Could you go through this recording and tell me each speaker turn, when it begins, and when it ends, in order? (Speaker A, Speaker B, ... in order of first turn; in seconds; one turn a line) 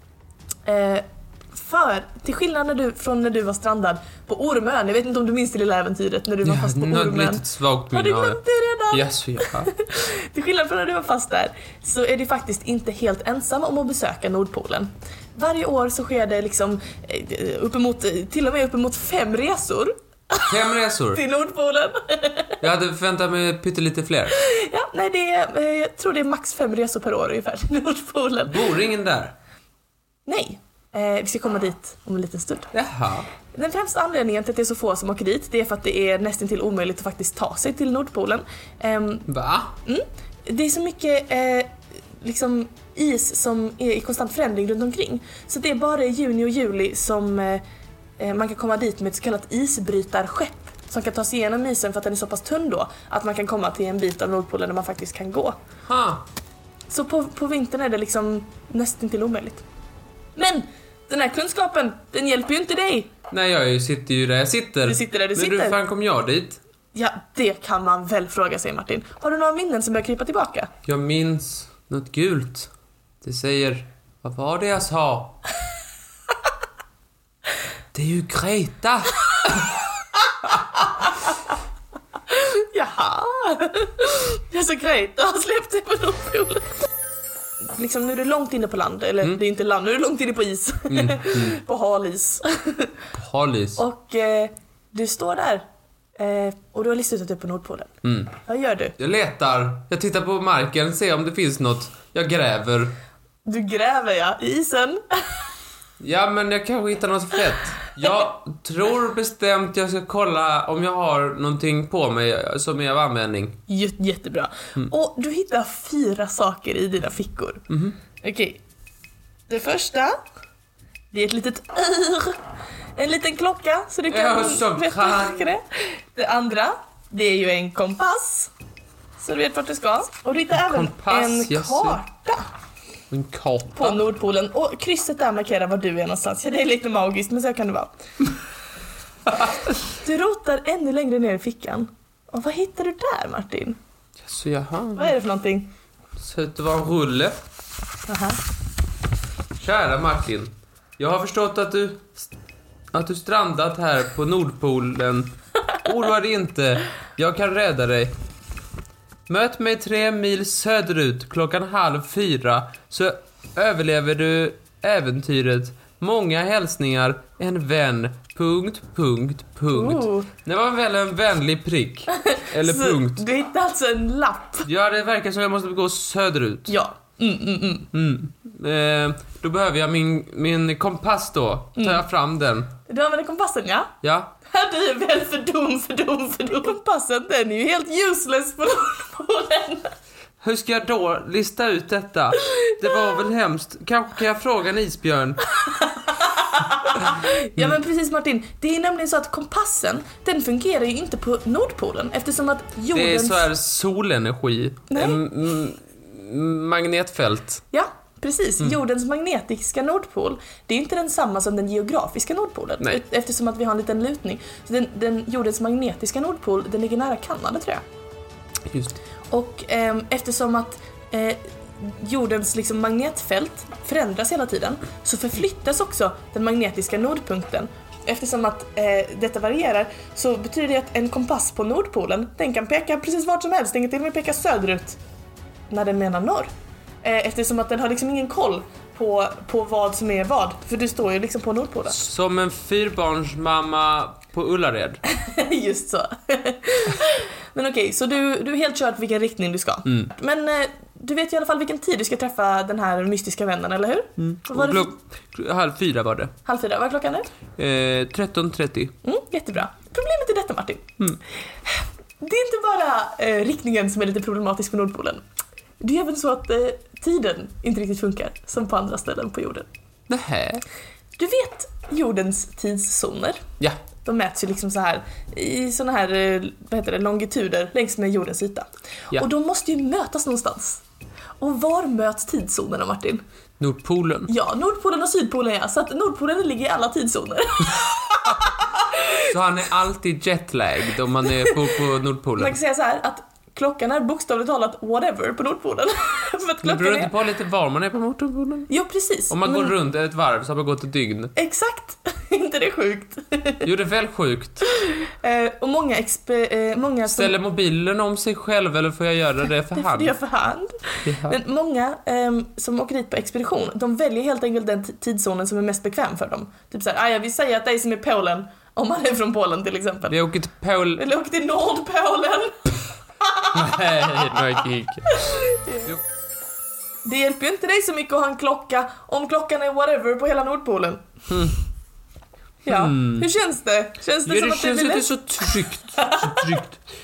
Speaker A: 0.7-20.6
Speaker B: 6.4-9.7
Speaker B: 20.5-21.2
Speaker A: 21.1-22.6
Speaker B: 22.6-24.4
Speaker A: 24.3-28.7
Speaker B: 28.4-29.3
Speaker A: 30.2-32.7
Speaker B: 32.7-33.3
Speaker A: 33.5-39.3
Speaker B: 39.3-39.7
Speaker A: 39.8-47.6
Speaker A: 48.2-55.6
Speaker B: 55.9-56.2
Speaker A: 56.9-59.6
Speaker A: 60.4-63.1
Speaker B: 63.3-66.6
Speaker A: 64.8-65.8
Speaker A: 66.9-70.7
Speaker B: 70.8-72.7
Speaker B: 73.2-75.4
Speaker B: 77.9-79.8
Speaker A: 80.5-81.3
Speaker A: 82.3-86.8
Speaker A: 87.6-93.0
Speaker B: 90.9-91.6
Speaker B: 93.1-93.8
Speaker A: 93.8-95.6
Speaker A: 96.2-98.9
Speaker B: 98.0-98.3
Speaker B: 99.0-103.0
Speaker A: 103.5-105.4
Speaker B: 106.0-113.6
Speaker A: 113.7-117.7
Speaker B: 117.7-118.0
Speaker A: 118.2-118.6
Speaker A: 119.5-120.2
Speaker A: 121.1-122.4
Speaker A: 123.0-128.5
Speaker B: 124.1-125.5
Speaker A: 129.2-132.5
Speaker B: 130.6-132.0
Speaker B: 133.1-134.0
Speaker A: 133.8-137.9
Speaker A: 139.8-143.8
Speaker B: 144.2-145.1
Speaker A: 144.9-145.7
Speaker B: 146.2-147.4
Speaker A: 148.1-148.4
Speaker B: 149.6-152.3
Speaker B: 152.9-158.1
Speaker B: 159.3-173.2
Speaker A: 169.7-170.3
Speaker A: 172.2-174.7
Speaker B: 174.6-176.8
Speaker A: 176.7-177.9
Speaker B: 177.9-182.7
Speaker A: 181.8-182.0
Speaker A: 182.9-183.9
Speaker B: 184.0-184.3
Speaker A: 184.5-189.9
Speaker B: 190.4-195.4
Speaker A: 192.4-192.7
Speaker A: 195.6-203.5
Speaker B: 202.9-207.6
Speaker A: 204.9-205.2
Speaker A: 207.7-217.8
Speaker B: 218.7-219.0
Speaker A: 219.3-235.0
Speaker A: 235.7-236.5
Speaker A: 237.0-242.0
Speaker B: 241.9-245.0
Speaker A: 245.1-254.9
Speaker B: 249.8-250.1
Speaker B: 254.2-256.3
Speaker A: 256.4-257.3
Speaker B: 257.6-258.9
Speaker A: 259.0-260.9
Speaker A: 261.6-265.2
Speaker A: 265.8-269.7
Speaker B: 270.1-270.6
Speaker A: 271.2-273.4
Speaker A: 274.0-280.8
Speaker A: 281.4-283.2
Speaker B: 283.6-284.3
Speaker A: 284.3-289.2
Speaker B: 289.2-292.6
Speaker A: 291.3-291.6
Speaker A: 292.4-297.1
Speaker B: 296.6-298.7
Speaker A: 298.7-299.7
Speaker B: 299.3-301.3
Speaker A: 301.4-303.7
Speaker B: 303.6-304.6
Speaker A: 304.8-307.3
Speaker B: 307.1-310.1
Speaker A: 309.7-320.2
Speaker B: 311.0-311.4
Speaker B: 320.1-321.0
Speaker A: 321.0-325.9
Speaker B: 323.5-326.0
Speaker A: 327.0-331.0
Speaker B: 331.3-331.6
Speaker A: 332.6-336.5
Speaker B: 332.6-333.3
Speaker B: 334.2-336.8